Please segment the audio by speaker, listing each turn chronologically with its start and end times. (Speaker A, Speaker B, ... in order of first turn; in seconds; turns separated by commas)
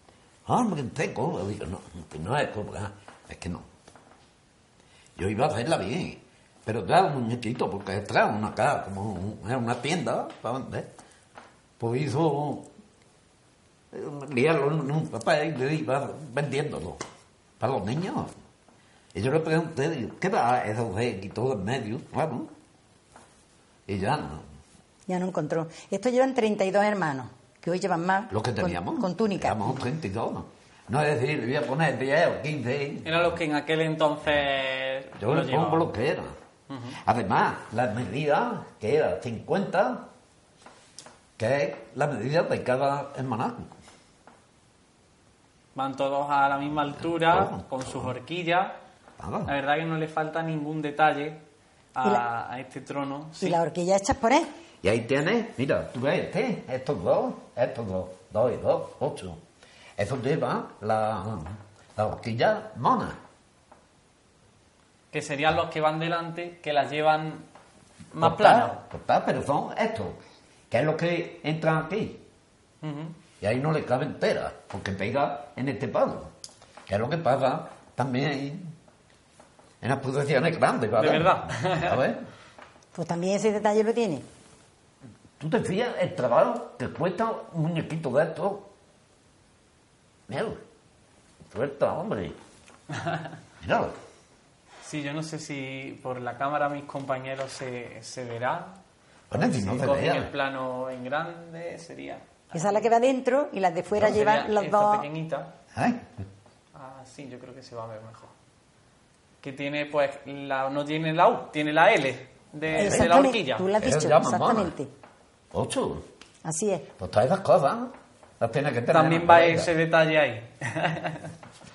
Speaker A: 0.5-3.7, Speaker A: 5.2-10.9, Speaker A: 11.8-12.7, Speaker A: 13.9-17.0, Speaker A: 17.6-18.3, Speaker A: 19.1-22.5, Speaker A: 23.9-24.4, Speaker B: 25.1-29.8, Speaker A: 28.3-33.3, Speaker C: 33.0-35.9, Speaker A: 35.2-36.4, Speaker C: 36.7-37.0, Speaker A: 37.0-40.1, Speaker A: 41.4-43.7, Speaker C: 45.8-48.7, Speaker A: 46.8-48.1, Speaker A: 49.2-49.5, Speaker C: 49.5-51.4, Speaker C: 52.0-53.6, Speaker B: 53.4-54.5, Speaker A: 54.8-59.4, Speaker A: 60.0-63.2, Speaker C: 65.1-67.5, Speaker C: 68.1-68.8, Speaker A: 68.2-70.2, Speaker A: 70.7-72.2, Speaker C: 72.8-73.2, Speaker A: 73.4-76.3, Speaker A: 76.9-78.7, Speaker A: 79.8-82.3, Speaker C: 81.0-82.0, Speaker B: 83.0-84.2, Speaker A: 85.4-88.7, Speaker A: 90.3-90.6, Speaker A: 91.5-92.4, Speaker A: 93.6-94.0, Speaker C: 94.8-98.8, Speaker A: 99.3-100.3, Speaker C: 99.3-102.8, Speaker B: 102.5-105.1, Speaker C: 104.0-105.5, Speaker A: 105.7-106.1, Speaker C: 106.8-108.3, Speaker C: 109.4-113.7, Speaker B: 112.7-114.9, Speaker A: 112.8-113.2, Speaker A: 113.8-114.7, Speaker A: 115.5-116.1, Speaker B: 116.4-116.9, Speaker A: 117.0-119.7, Speaker C: 118.9-121.3